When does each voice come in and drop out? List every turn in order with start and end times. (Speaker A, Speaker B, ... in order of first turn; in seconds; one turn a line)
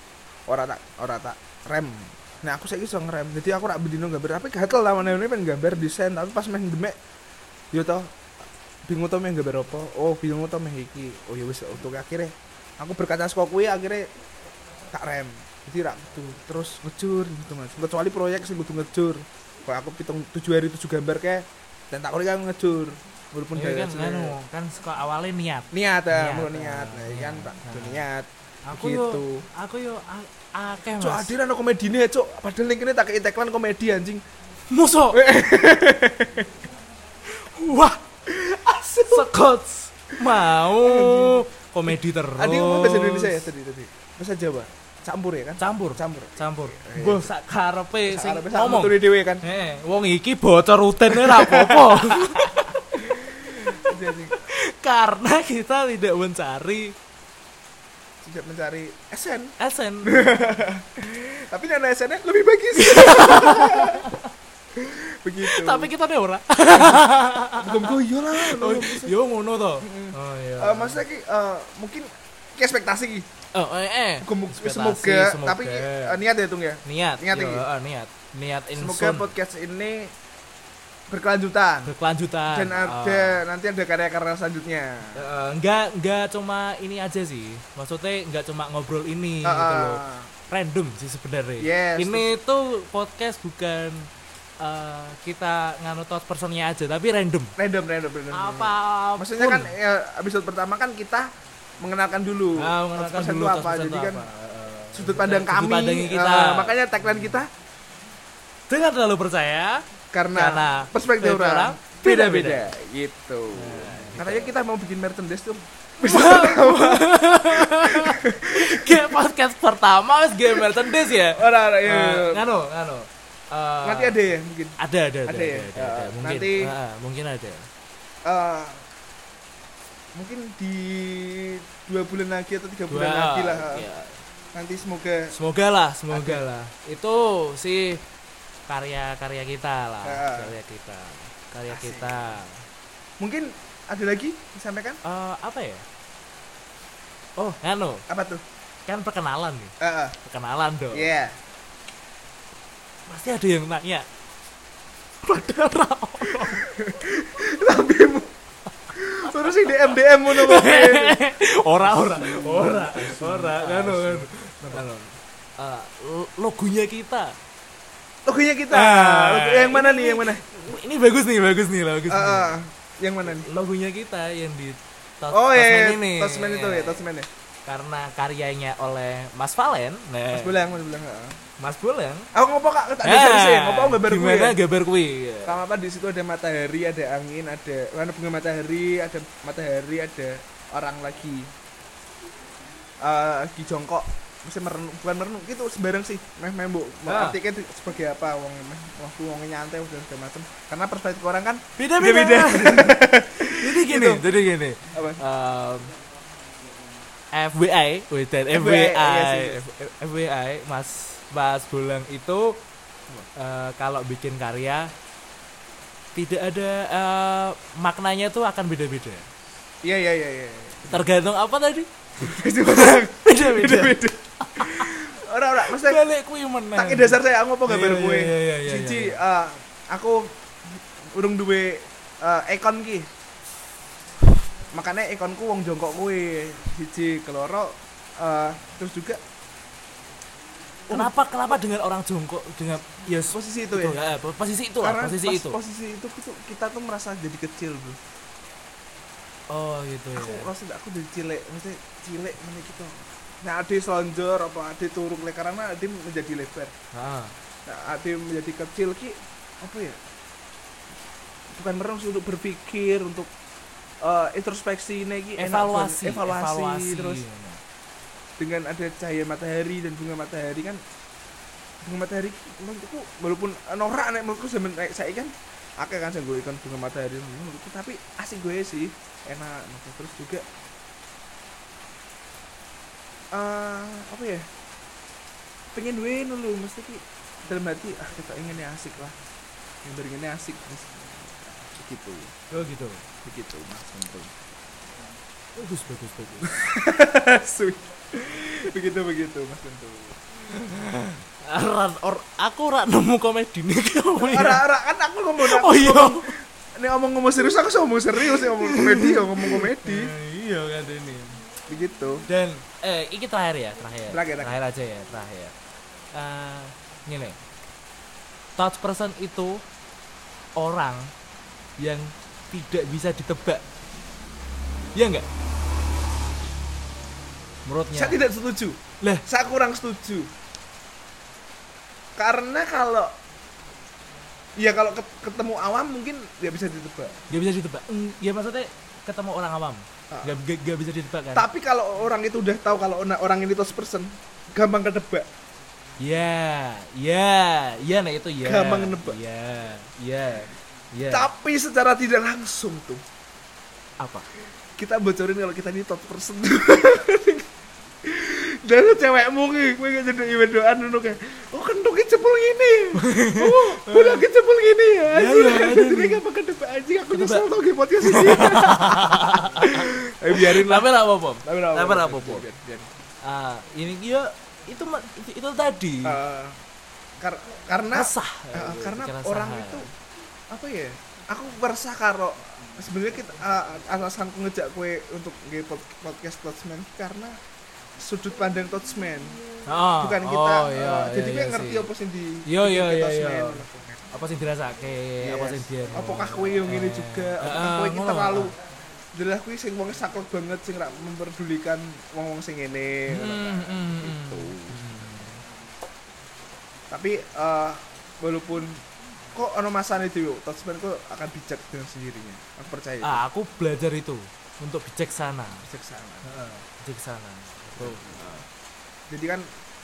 Speaker A: 0.5-7.0
Speaker A: 7.7-8.1
Speaker A: 8.9-14.1
Speaker A: 14.9-24.4
Speaker B: 23.5-28.1
Speaker A: 25.7-29.5
Speaker B: 28.7-31.3
Speaker A: 31.0-34.2
Speaker B: 34.7-35.2
Speaker A: 35.1-36.6
Speaker B: 37.3-38.0
Speaker A: 38.3-39.3
Speaker B: 39.0-43.5
Speaker A: 40.5-41.4
Speaker A: 42.4-47.3
Speaker B: 45.6-57.0
Speaker A: 48.1-49.4
Speaker A: 51.1-54.5
Speaker A: 58.2-64.1
Speaker B: 59.6-60.3
Speaker B: 62.8-64.3
Speaker A: 64.8-65.9
Speaker B: 65.4-71.0
Speaker A: 66.7-69.1
Speaker A: 69.8-73.3
Speaker B: 73.5-76.2
Speaker A: 74.2-77.7
Speaker B: 76.8-79.4
Speaker A: 78.7-80.1
Speaker A: 81.1-81.9
Speaker B: 81.8-83.4
Speaker A: 82.5-85.2
Speaker B: 85.2-94.1
Speaker A: 89.4-90.3
Speaker A: 91.6-92.4
Speaker B: 94.6-97.5
Speaker A: 97.6-101.3
Speaker B: 98.3-99.8
Speaker A: 101.8-104.3
Speaker B: 102.6-107.4
Speaker A: 104.9-107.5
Speaker B: 108.7-112.7
Speaker A: 110.1-119.1
Speaker B: 113.5-114.5
Speaker B: 116.0-124.2
Speaker A: 120.5-122.5
Speaker A: 123.8-126.7
Speaker B: 124.8-127.7
Speaker A: 128.2-128.8
Speaker A: 130.2-133.9
Speaker B: 132.9-134.2
Speaker A: 134.5-135.4
Speaker B: 135.3-138.0
Speaker A: 136.1-136.4
Speaker B: 138.7-142.7
Speaker A: 140.0-140.5
Speaker A: 141.7-142.3
Speaker A: 143.2-145.0
Speaker B: 145.0-145.9
Speaker B: 147.4-148.1
Speaker A: 148.1-148.4
Speaker B: 148.9-151.1
Speaker A: 149.8-150.2
Speaker A: 150.9-151.4
Speaker B: 153.1-154.1
Speaker B: 155.2-156.7
Speaker A: 156.3-158.3
Speaker A: 158.9-161.3
Speaker B: 159.3-167.4
Speaker A: 161.9-164.8
Speaker A: 168.3-170.4
Speaker B: 168.7-172.6
Speaker A: 172.1-173.5
Speaker B: 173.2-177.1
Speaker A: 175.3-177.3
Speaker B: 177.7-180.6
Speaker A: 180.3-181.4
Speaker B: 181.6-182.3
Speaker A: 182.3-184.6
Speaker B: 183.0-185.6
Speaker A: 185.4-191.5
Speaker A: 193.0-204.3
Speaker B: 197.1-197.4
Speaker B: 201.8-205.9
Speaker A: 204.9-205.2
Speaker B: 207.3-212.6
Speaker A: 208.5-209.6
Speaker B: 213.3-214.9
Speaker B: 216.2-219.3
Speaker A: 219.8-221.0
Speaker B: 220.9-225.0
Speaker A: 222.2-226.0
Speaker B: 225.6-229.2
Speaker A: 226.8-233.1
Speaker A: 234.7-239.2
Speaker A: 240.9-241.5
Speaker B: 240.9-245.6
Speaker A: 243.3-244.0
Speaker A: 244.8-248.0
Speaker B: 249.5-250.5
Speaker A: 250.2-256.7
Speaker B: 256.9-257.3
Speaker A: 257.7-260.0
Speaker A: 261.5-263.3
Speaker A: 264.0-267.2
Speaker B: 265.4-267.6
Speaker A: 268.4-270.8
Speaker A: 271.8-280.4
Speaker A: 283.3-284.5
Speaker A: 285.7-289.2
Speaker A: 289.8-292.4
Speaker B: 292.5-293.0
Speaker A: 293.2-294.3
Speaker B: 295.6-296.5
Speaker A: 296.4-300.2
Speaker B: 300.5-304.6
Speaker A: 304.2-310.1
Speaker B: 305.4-306.3
Speaker B: 308.1-311.4
Speaker A: 311.7-312.3
Speaker B: 312.3-315.6
Speaker A: 314.1-314.6
Speaker B: 316.1-317.4
Speaker B: 318.6-319.6
Speaker B: 320.6-321.1
Speaker B: 321.8-323.6
Speaker B: 324.9-325.3
Speaker B: 327.6-328.2
Speaker A: 327.9-330.3
Speaker A: 332.2-333.1
Speaker A: 334.6-337.2
Speaker B: 337.3-341.5
Speaker A: 340.1-340.4
Speaker A: 341.3-345.3
Speaker B: 346.0-351.3
Speaker A: 348.4-349.2
Speaker A: 351.1-353.0
Speaker B: 354.0-354.3
Speaker A: 354.8-357.5
Speaker A: 358.0-372.9
Speaker B: 362.9-364.2
Speaker B: 365.1-366.2
Speaker B: 367.1-367.5
Speaker B: 368.0-372.5
Speaker B: 373.2-376.2
Speaker A: 376.1-376.6
Speaker A: 377.2-379.9
Speaker B: 377.9-379.9
Speaker A: 380.5-387.4
Speaker A: 388.0-389.4
Speaker B: 389.7-391.9
Speaker A: 390.0-394.1
Speaker B: 392.5-398.5
Speaker A: 395.2-398.5
Speaker A: 399.1-404.8
Speaker B: 403.1-405.4
Speaker A: 406.9-408.8
Speaker A: 409.4-413.2
Speaker B: 413.0-415.6
Speaker A: 415.6-416.3
Speaker B: 416.2-418.4
Speaker A: 417.8-418.3
Speaker A: 419.1-419.5